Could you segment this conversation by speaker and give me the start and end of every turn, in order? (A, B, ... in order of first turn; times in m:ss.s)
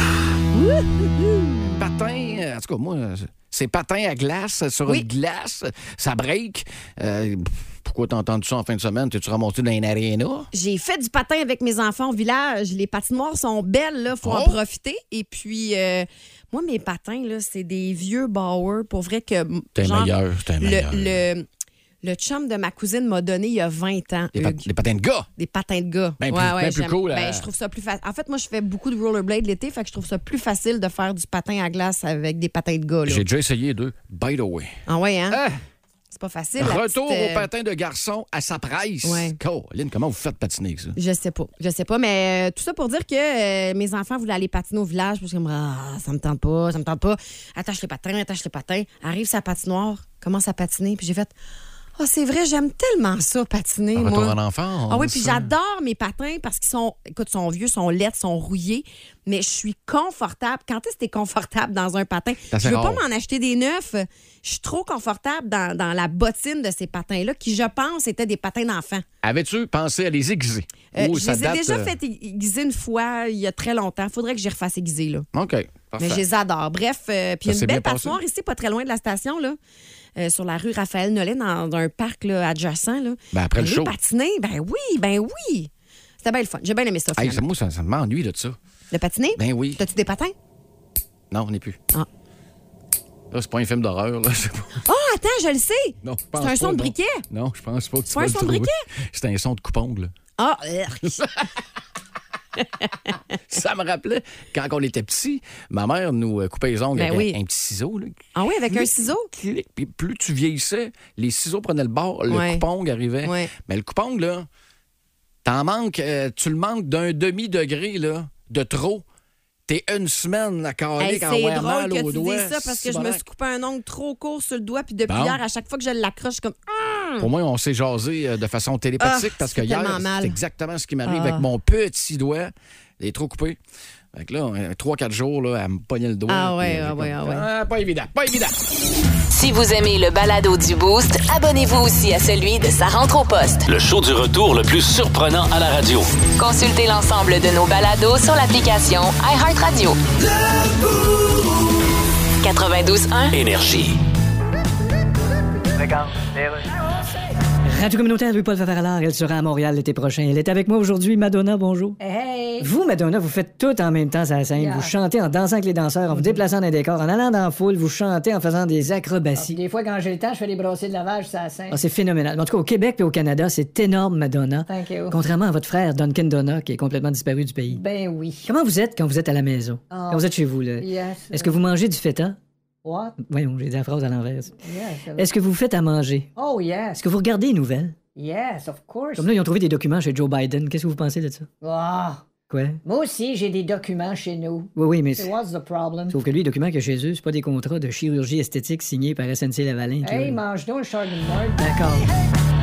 0:00.6-0:01.7 A
0:01.6-0:10.5 B
0:10.5-0:21.4 A
0:14.2-0:14.6 B
0:19.7-0:21.2 B
0:22.0-0:24.7 A
0:24.3-0:25.3 B
0:25.4-0:33.2 A
0:26.2-0:27.4 B
0:33.0-0:34.8 B
0:34.9-0:35.4 A
0:35.3-0:35.6 B
0:36.1-0:37.5 A
0:36.6-0:41.0 B
0:39.0-0:39.4 A
0:41.0-0:51.3 A
0:52.0-0:54.4 A
0:53.9-0:55.5 B
0:54.9-1:09.0 A
1:02.5-1:03.0 B
1:09.2-1:11.9 B
1:10.9-1:15.2 A
1:15.3-1:16.2 B
1:16.0-1:19.6 A
1:17.4-1:18.2 B
1:20.2-1:25.7 A
1:23.3-1:23.9 B
1:26.2-1:27.4 A
1:27.2-1:28.6 B
1:28.9-1:30.3 A
1:29.4-1:29.8 B
1:31.3-1:31.8 B
1:33.3-1:34.8 B
1:34.8-1:37.2 A
1:36.0-1:40.1 B
1:38.1-1:38.8 A
1:40.4-1:41.3 A
1:43.5-1:54.5 B
1:46.9-1:47.4 A
1:48.3-1:49.3 A
1:52.3-1:52.6 A
1:53.2-1:53.5 A
1:55.4-1:59.0 B
1:59.7-2:03.2 B
2:01.0-2:07.3 A
2:05.1-2:05.4 B
2:07.2-2:13.6 B
2:09.0-2:10.4 A
2:11.0-2:11.4 A
2:14.1-2:18.6 B
2:16.3-2:17.5 A
2:19.3-2:23.6 C
2:23.6-2:26.1 D
2:26.4-2:30.0 C
2:32.4-2:33.3 C
2:33.3-2:34.0 D
2:37.6-2:42.0 E
2:42.0-2:42.7 F
2:42.6-2:49.6 E
2:44.6-2:44.9 F
2:46.1-2:46.4 F
2:49.4-2:51.8 F
2:51.7-2:57.8 E
2:54.7-2:55.2 F
2:57.7-2:58.5 F
2:58.4-3:02.4 E
2:59.9-3:01.6 F
3:02.8-3:03.2 F
3:03.2-3:04.5 E
3:04.6-3:05.3 F
3:05.2-3:06.3 E
3:06.4-3:07.0 F
3:07.0-3:08.0 E
3:08.2-3:09.3 F
3:09.2-3:11.4 E
3:11.6-3:12.3 F
3:12.5-3:12.8 E
3:12.8-3:16.2 F
3:14.8-3:15.3 E
3:16.1-3:20.4 E
3:20.0-3:21.7 F
3:21.6-3:22.0 E